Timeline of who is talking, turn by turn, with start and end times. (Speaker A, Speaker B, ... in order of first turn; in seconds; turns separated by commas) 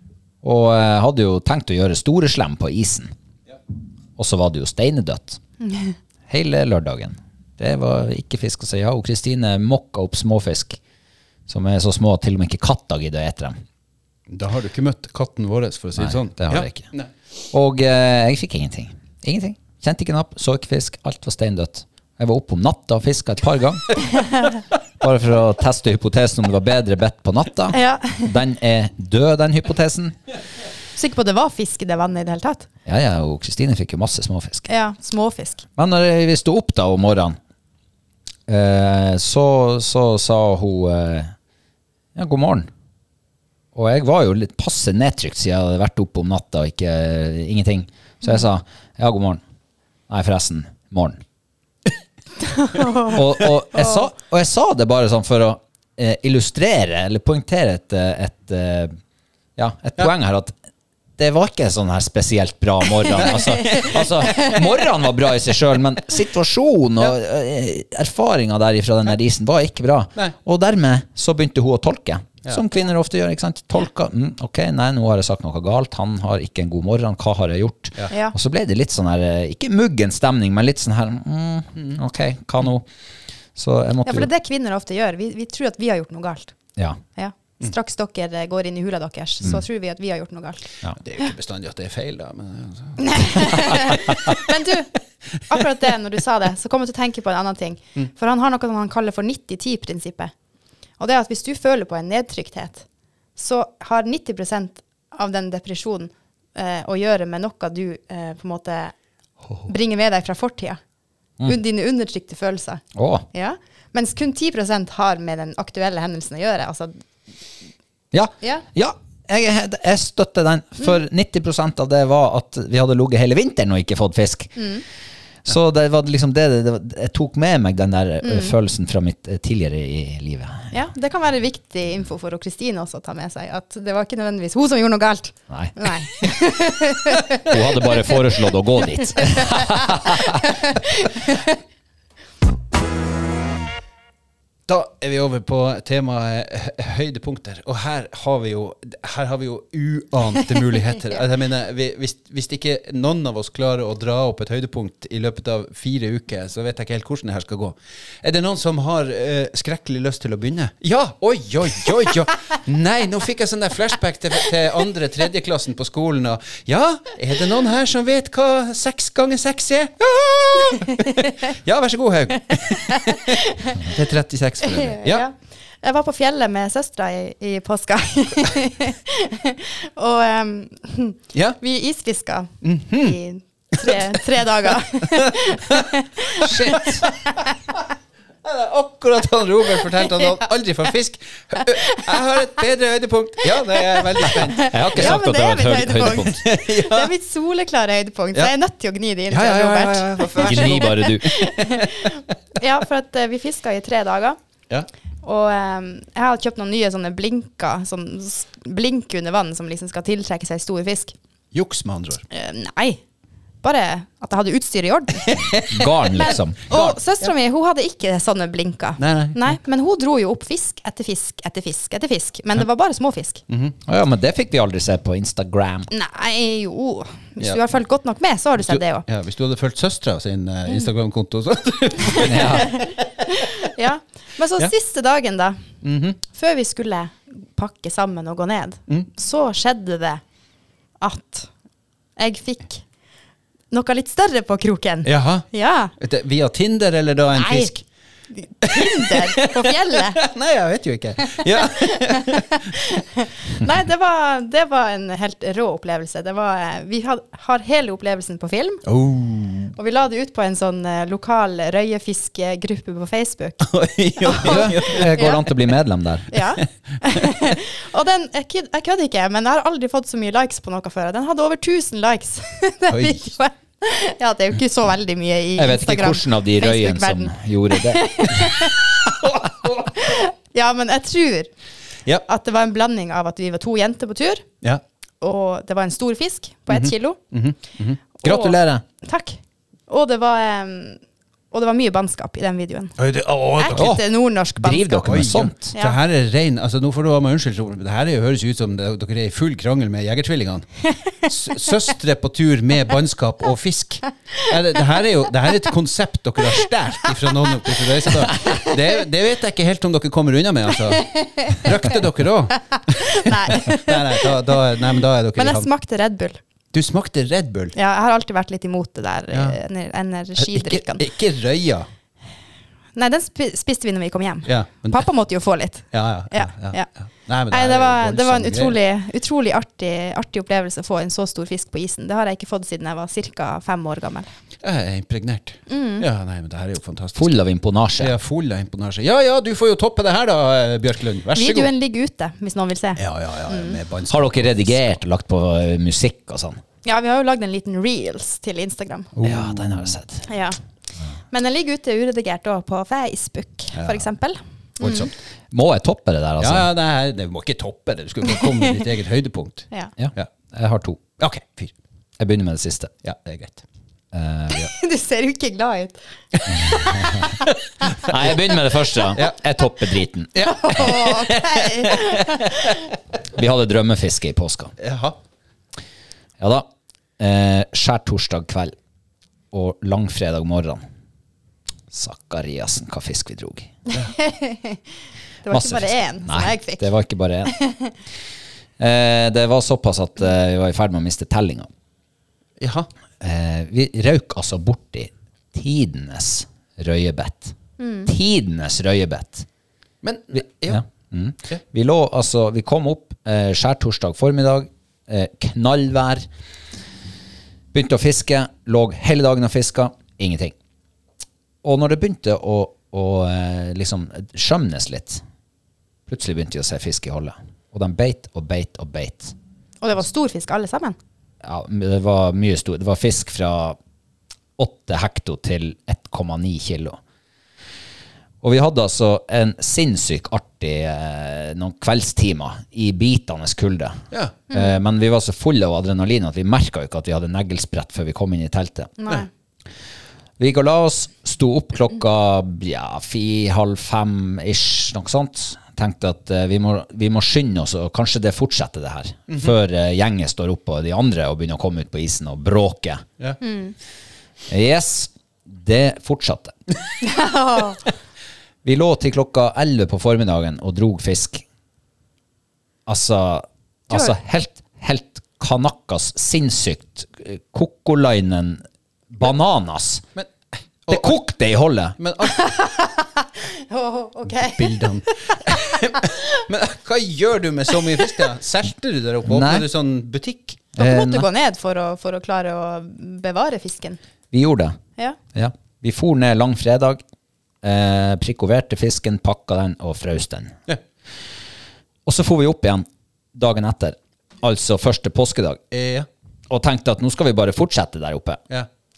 Speaker A: 0.4-3.1, Speaker A: 4.2-5.4, Speaker B: 5.6-5.9, Speaker A: 6.3-10.8, Speaker A: 11.5-13.6, Speaker C: 14.3-17.1, Speaker A: 16.0-16.9, Speaker A: 17.5-24.0, Speaker B: 24.2-24.5, Speaker A: 25.0-30.1, Speaker B: 27.7-28.3, Speaker B: 30.9-32.7, Speaker A: 32.9-34.7, Speaker B: 34.7-35.6, Speaker A: 35.8-37.4, Speaker A: 38.5-41.3, Speaker A: 42.1-42.7, Speaker A: 43.7-49.4, Speaker A: 50.1-51.2, Speaker B: 52.4-53.2, Speaker A: 53.0-58.9, Speaker A: 59.6-60.5, Speaker A: 61.2-82.9, Speaker C: 63.2-64.6, Speaker B: 63.5-64.6, Speaker B: 78.1-78.3, Speaker A: 83.5-84.3, Speaker B: 84.0-86.5, Speaker B: 87.2-90.7, Speaker C: 91.0-94.4, Speaker B: 93.0-94.9, Speaker B: 95.5-100.3, Speaker B: 101.0-102.8, Speaker B: 103.3-108.9, Speaker B: 109.6-110.8, Speaker B: 111.4-117.0, Speaker A: 112.9-113.2, Speaker A: 118.1-124.5, Speaker B: 124.6-124.8, Speaker A: 125.4-130.7, Speaker B: 128.2-128.5, Speaker B: 130.7-138.1, Speaker A: 135.5-136.3, Speaker A: 137.4-140.5, Speaker B: 138.8-141.6, Speaker C: 144.7-175.2, Speaker B: 170.6-171.3, Speaker B: 172.5-173.9, Speaker B: 174.7-187.8, Speaker C: 182.6-183.2, Speaker C: 183.8-184.2, Speaker C: 185.0-185.9, Speaker C: 186.4-187.4, Speaker A: 186.4-187.0, Speaker C: 188.4-195.2, Speaker B: 190.0-190.3, Speaker B: 191.6-192.2, Speaker B: 193.8-204.4, Speaker A: 194.7-196.4, Speaker C: 196.3-197.1, Speaker C: 199.3-202.1, Speaker A: 200.3-201.3, Speaker B: 205.2-211.1, Speaker C: 211.5-212.2, Speaker B: 212.3-213.0, Speaker B: 213.6-223.4, Speaker A: 215.7-216.6, Speaker C: 216.7-217.0, Speaker C: 219.0-219.6, Speaker C: 223.5-223.8, Speaker A: 223.9-225.9, Speaker B: 225.9-229.0, Speaker C: 228.6-233.7, Speaker B: 232.1-235.7, Speaker A: 232.2-232.8, Speaker C: 235.8-236.2, Speaker B: 236.3-240.2, Speaker B: 241.0-241.5, Speaker B: 242.2-242.8, Speaker B: 243.7-245.9, Speaker C: 245.0-247.8, Speaker B: 247.3-247.7, Speaker B: 248.3-250.2, Speaker C: 248.6-252.7, Speaker B: 251.2-258.8, Speaker C: 258.9-259.7, Speaker B: 259.8-265.4, Speaker C: 263.6-265.4, Speaker A: 264.4-266.3, Speaker B: 266.3-279.1, Speaker C: 272.9-273.3, Speaker A: 275.6-278.5, Speaker C: 279.2-279.9, Speaker B: 279.9-281.5, Speaker B: 282.2-284.4, Speaker B: 285.2-287.2, Speaker C: 286.7-288.0, Speaker B: 288.2-292.9, Speaker A: 288.2-288.8, Speaker C: 293.0-293.9, Speaker B: 293.6-296.0, Speaker A: 293.8-294.0, Speaker A: 294.6-295.6, Speaker C: 295.1-300.7, Speaker B: 300.9-301.1, Speaker C: 301.2-315.7, Speaker B: 307.7-308.8, Speaker B: 310.9-311.9, Speaker B: 312.7-314.6, Speaker B: 315.4-316.4, Speaker C: 316.7-317.8, Speaker B: 317.7-321.1, Speaker C: 319.3-319.6, Speaker C: 320.4-321.9, Speaker B: 322.9-326.9, Speaker C: 324.4-325.1, Speaker C: 325.9-328.8, Speaker B: 327.5-334.3, Speaker C: 334.6-337.4, Speaker B: 335.7-336.1, Speaker A: 337.1-338.1, Speaker C: 338.0-341.7, Speaker B: 341.3-343.8, Speaker C: 343.0-344.9, Speaker A: 344.1-346.6, Speaker B: 346.8-349.1, Speaker C: 349.1-349.9, Speaker A: 349.2-350.2, Speaker B: 350.3-350.6, Speaker B: 351.3-355.1, Speaker C: 353.7-354.0, Speaker C: 354.8-355.1, Speaker A: 355.5-356.7, Speaker C: 356.4-360.3, Speaker B: 358.3-358.6, Speaker A: 360.0-361.0, Speaker C: 361.2-361.7, Speaker A: 362.2-362.9, Speaker C: 363.0-363.6, Speaker A: 364.1-364.7, Speaker B: 364.5-367.5, Speaker C: 366.6-368.0, Speaker A: 367.0-367.2, Speaker A: 368.0-370.3, Speaker C: 370.3-372.6, Speaker B: 370.4-372.8, Speaker A: 373.3-374.7, Speaker C: 374.8-375.2, Speaker A: 376.4-376.7, Speaker A: 377.2-378.8, Speaker A: 379.5-380.8, Speaker A: 381.9-383.7, Speaker B: 383.9-384.8, Speaker B: 385.4-386.9, Speaker A: 385.5-387.5, Speaker B: 387.4-387.9, Speaker A: 388.8-391.7, Speaker C: 392.6-392.9, Speaker A: 393.2-397.6, Speaker B: 397.8-398.1, Speaker A: 398.1-399.5, Speaker C: 400.0-400.8, Speaker A: 400.7-406.2, Speaker A: 407.7-410.5, Speaker A: 411.6-415.2, Speaker A: 416.1-419.3, Speaker B: 419.8-420.9, Speaker A: 421.4-423.8, Speaker A: 424.6-427.0, Speaker A: 428.4-434.0, Speaker C: 434.1-434.4, Speaker B: 434.5-434.8, Speaker A: 434.5-438.9, Speaker B: 439.0-439.3, Speaker A: 440.4-453.0, Speaker B: 453.4-453.7, Speaker A: 454.5-456.6, Speaker B: 457.0-457.8, Speaker A: 458.6-461.4, Speaker A: 462.9-470.0, Speaker C: 470.8-471.2, Speaker A: 470.9-471.9, Speaker C: 472.0-472.5, Speaker B: 472.2-476.4, Speaker C: 474.4-480.7, Speaker B: 477.9-478.2, Speaker A: 479.2-479.6, Speaker A: 480.8-481.3, Speaker B: 480.8-484.0, Speaker A: 484.3-484.8, Speaker A: 485.3-487.0, Speaker A: 487.6-490.6, Speaker A: 492.1-495.6, Speaker C: 495.7-496.1, Speaker A: 496.5-498.4